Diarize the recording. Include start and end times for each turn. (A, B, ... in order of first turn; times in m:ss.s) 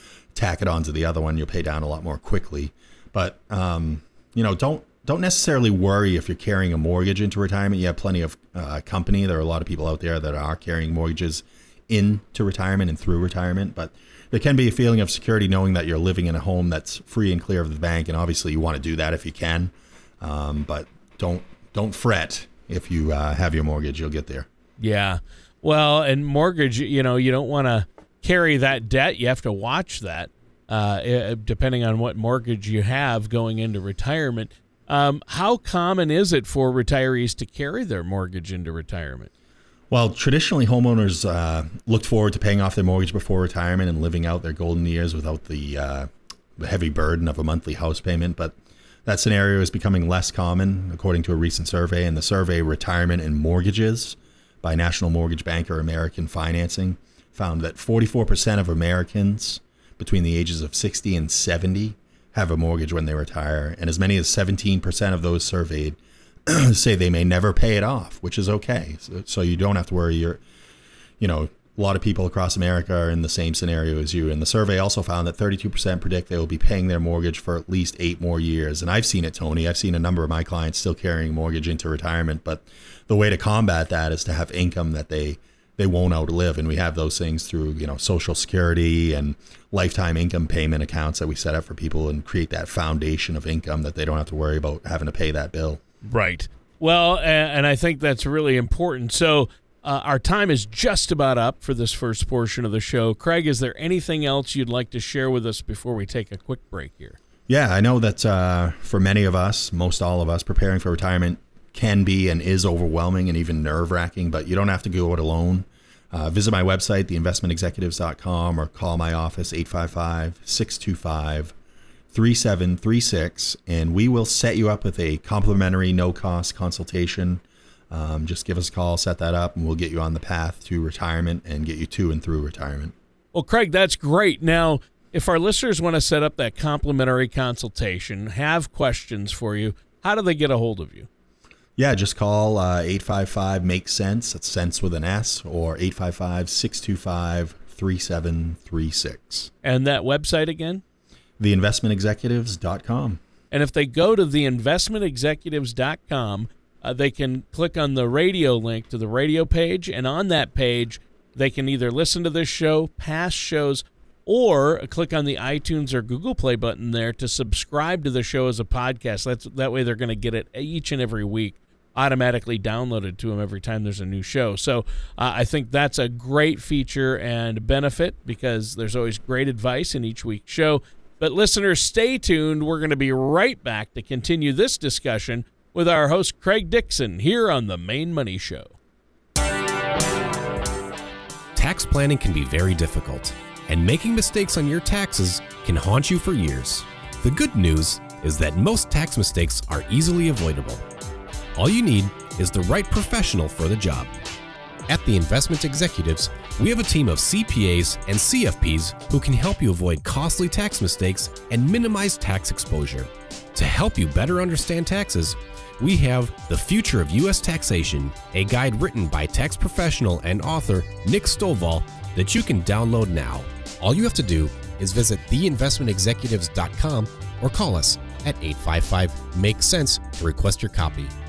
0:00.3-0:24.5 A
0:24.8-0:39.3 B
0:39.9-1:10.4 A
1:11.2-1:35.8 A
1:36.0-1:47.2 B
1:47.5-2:01.5 A
2:02.1-2:12.9 A
2:13.3-2:21.1 B
2:21.8-2:29.5 A
2:29.6-2:30.8 B
2:31.4-2:33.2 A
2:33.5-3:08.7 B
3:11.5-3:20.8 C
3:21.6-3:24.1 C
3:24.9-3:51.1 C